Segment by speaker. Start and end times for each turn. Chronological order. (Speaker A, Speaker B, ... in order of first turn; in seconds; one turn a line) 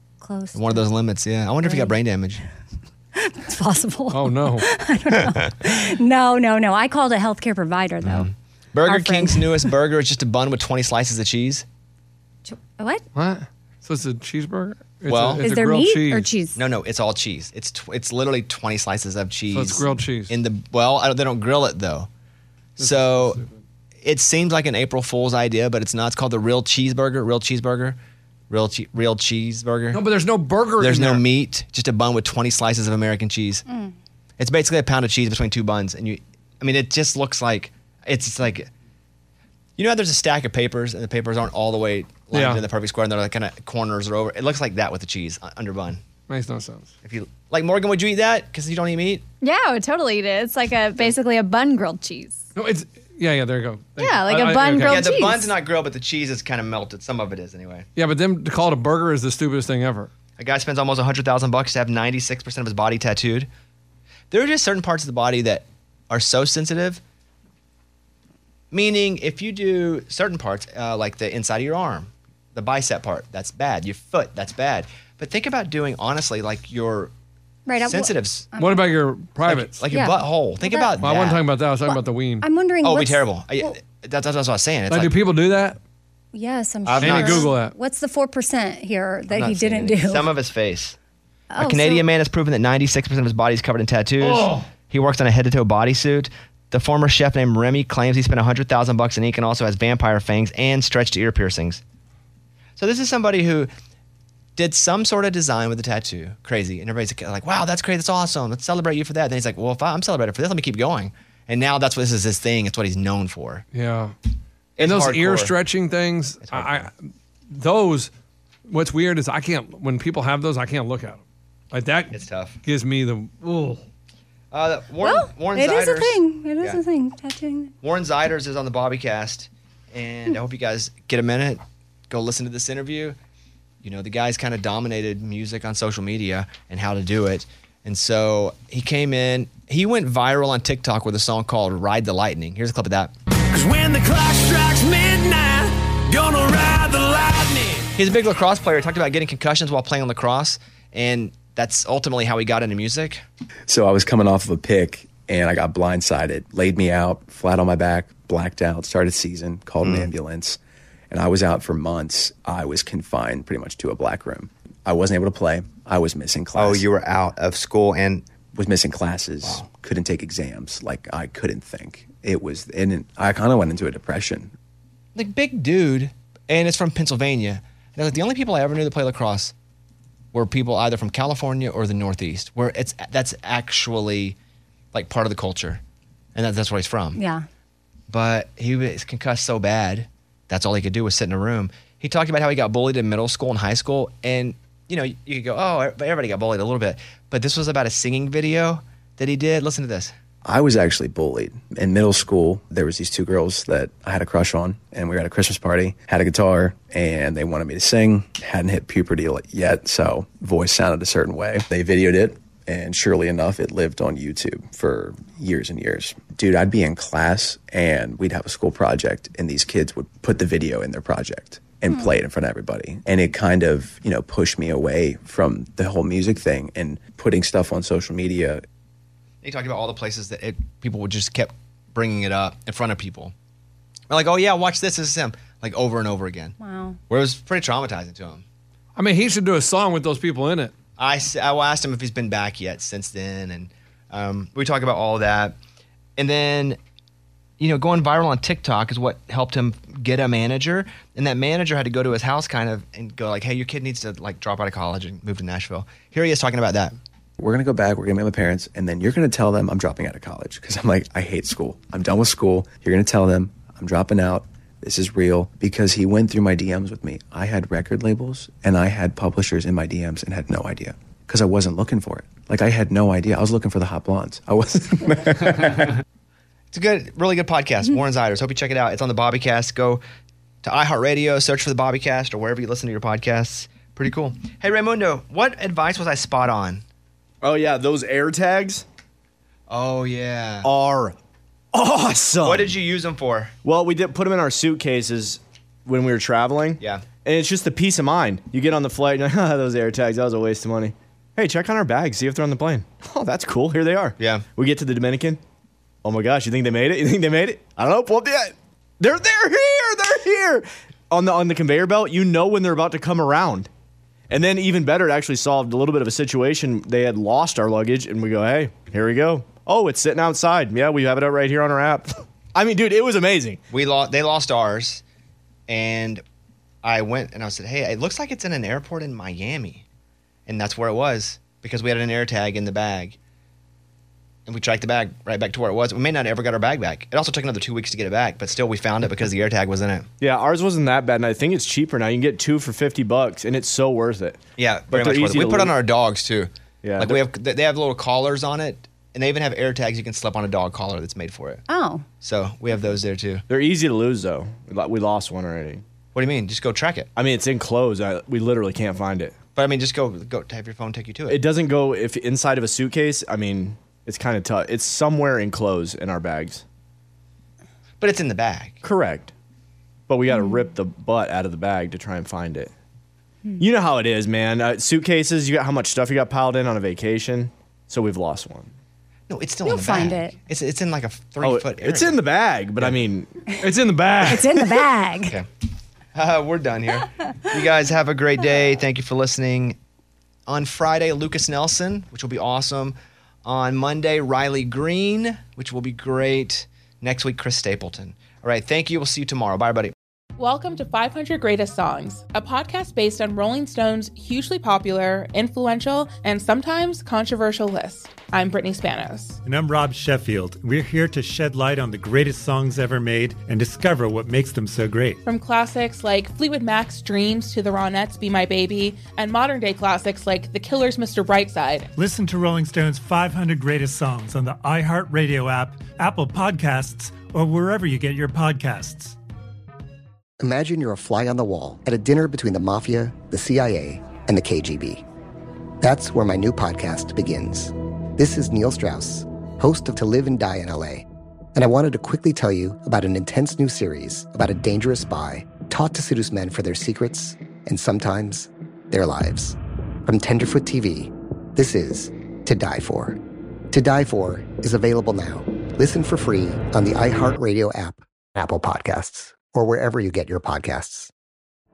Speaker A: 0.2-0.8
Speaker B: 0.5-2.4
Speaker A: 1.6-1.9
Speaker A: 3.2-8.3
Speaker C: 4.1-4.7
Speaker B: 8.0-11.7
Speaker A: 8.9-9.7
Speaker A: 12.5-13.0
Speaker C: 13.2-16.3
Speaker B: 15.1-15.4
Speaker A: 15.4-16.6
Speaker B: 16.6-22.1
Speaker C: 19.5-20.3
Speaker B: 22.8-23.4
Speaker C: 22.8-23.6
Speaker B: 24.0-28.0
Speaker B: 28.5-30.0
Speaker C: 29.9-31.2
Speaker B: 30.8-33.6
Speaker A: 33.7-34.0
Speaker B: 34.4-38.7
Speaker B: 39.8-46.0
Speaker C: 42.3-42.6
Speaker C: 46.3-46.9
Speaker B: 47.0-49.2
Speaker D: 49.4-52.5
Speaker C: 52.6-55.0
Speaker D: 54.0-55.5
Speaker B: 54.8-57.9
Speaker C: 58.0-60.1
Speaker B: 60.4-63.5
Speaker B: 64.3-67.0
Speaker B: 68.7-77.1
Speaker A: 77.7-78.8
Speaker B: 77.8-78.5
Speaker C: 78.6-79.8
Speaker B: 79.5-81.4
Speaker A: 79.9-81.0
Speaker C: 81.0-82.5
Speaker A: 81.9-83.7
Speaker B: 82.8-85.1
Speaker C: 84.9-85.8
Speaker A: 86.3-90.3
Speaker B: 86.8-87.5
Speaker C: 87.0-87.7
Speaker B: 89.3-91.0
Speaker A: 91.5-92.1
Speaker B: 91.6-101.8
Speaker C: 94.2-94.7
Speaker B: 102.8-103.7
Speaker B: 104.6-113.7
Speaker C: 113.7-114.1
Speaker B: 114.8-115.5
Speaker C: 114.8-116.9
Speaker B: 116.4-116.9
Speaker C: 117.5-118.1
Speaker C: 118.7-121.2
Speaker C: 121.7-122.1
Speaker B: 122.1-122.6
Speaker C: 122.6-123.8
Speaker B: 124.5-126.8
Speaker A: 125.0-127.7
Speaker B: 127.8-133.2
Speaker B: 133.8-143.1
Speaker E: 143.5-147.9
Speaker B: 148.0-153.2
Speaker F: 153.7-160.6
Speaker B: 159.8-160.1
Speaker F: 161.1-166.8
Speaker B: 166.6-168.2
Speaker F: 168.5-174.5
Speaker B: 175.2-179.5
Speaker B: 180.3-184.4
Speaker B: 184.9-185.8
Speaker B: 186.3-187.2
Speaker A: 187.2-187.5
Speaker B: 188.1-200.1
Speaker F: 200.4-228.6
Speaker B: 229.4-233.3
Speaker B: 234.1-236.6
Speaker A: 236.6-237.0
Speaker B: 237.1-238.4
Speaker C: 239.0-240.7
Speaker B: 241.0-245.6
Speaker B: 246.2-246.8
Speaker B: 247.6-257.0
Speaker F: 257.4-276.0
Speaker B: 276.7-280.0
Speaker B: 280.6-286.8
Speaker G: 287.4-288.9
Speaker B: 289.7-290.7
Speaker G: 290.6-291.1
Speaker G: 291.7-292.7
Speaker B: 292.4-293.5
Speaker G: 293.6-305.4
Speaker B: 296.8-297.0
Speaker B: 304.2-304.4
Speaker G: 306.0-313.7
Speaker G: 314.3-323.6
Speaker B: 323.7-325.0
Speaker B: 325.7-326.2
Speaker B: 326.8-329.9
Speaker B: 330.5-333.2
Speaker B: 334.5-340.1
Speaker G: 340.2-344.4
Speaker B: 344.6-351.6
Speaker G: 344.9-345.7
Speaker G: 346.8-347.2
Speaker A: 351.7-352.1
Speaker B: 352.2-353.4
Speaker G: 353.5-355.8
Speaker B: 356.1-357.1
Speaker G: 357.2-359.4
Speaker B: 359.6-361.4
Speaker G: 361.3-366.6
Speaker B: 368.0-368.8
Speaker G: 368.8-369.3
Speaker G: 370.1-372.7
Speaker G: 373.6-378.7
Speaker B: 379.3-382.2
Speaker A: 379.6-380.4
Speaker G: 381.4-383.4
Speaker C: 383.6-384.7
Speaker A: 384.2-385.4
Speaker B: 386.1-389.8
Speaker B: 390.5-399.9
Speaker H: 400.4-409.4
Speaker I: 409.4-415.2
Speaker H: 415.2-421.9
Speaker I: 422.0-429.2
Speaker J: 430.4-435.0
Speaker J: 435.8-453.2
Speaker J: 453.7-461.1